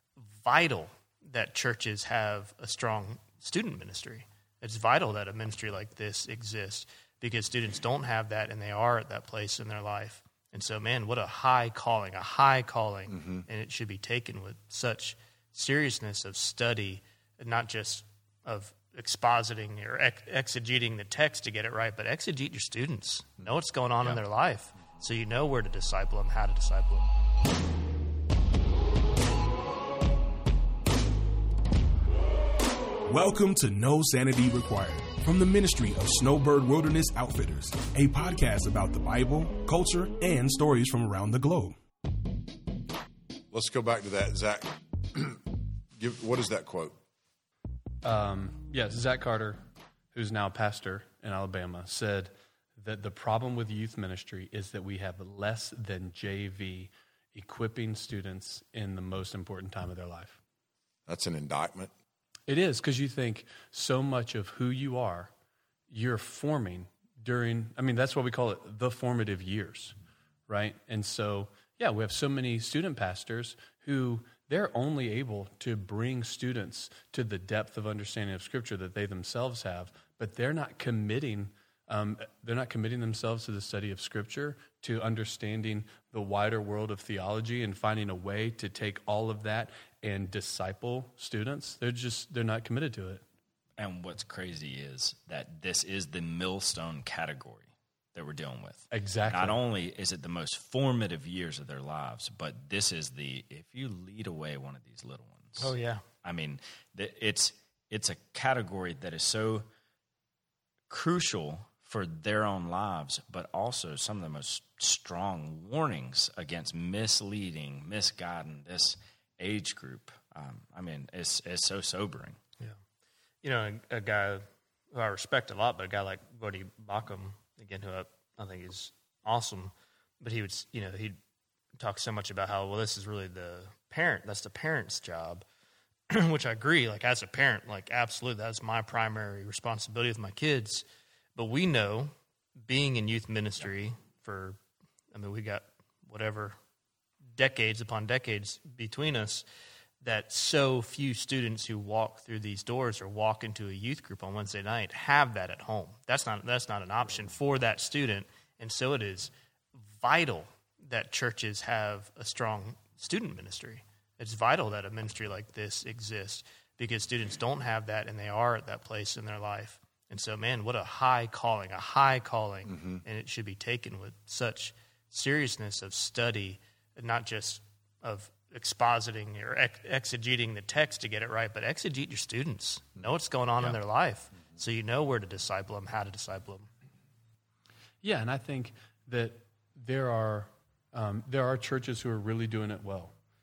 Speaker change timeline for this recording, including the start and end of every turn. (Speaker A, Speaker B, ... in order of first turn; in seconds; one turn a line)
Speaker A: 0.4-27.1
Speaker B: 13.1-13.4
Speaker C: 33.1-41.8
Speaker B: 43.5-45.4
Speaker B: 46.0-46.9
Speaker D: 48.0-49.6
Speaker D: 50.1-60.4
Speaker B: 61.1-61.9
Speaker D: 62.5-65.3
Speaker D: 65.9-70.0
Speaker D: 70.5-93.2
Speaker E: 93.8-105.7
Speaker D: 98.9-99.6
Speaker A: 105.6-106.0
Speaker E: 106.2-109.6
Speaker E: 110.9-122.4
Speaker A: 123.4-131.2
Speaker A: 131.8-135.4
Speaker A: 136.1-140.8
Speaker A: 141.3-142.1
Speaker A: 142.7-144.6
Speaker A: 145.1-146.6
Speaker A: 147.3-149.4
Speaker A: 150.0-159.3
Speaker A: 159.9-186.7
Speaker B: 172.7-173.0
Speaker D: 188.0-193.1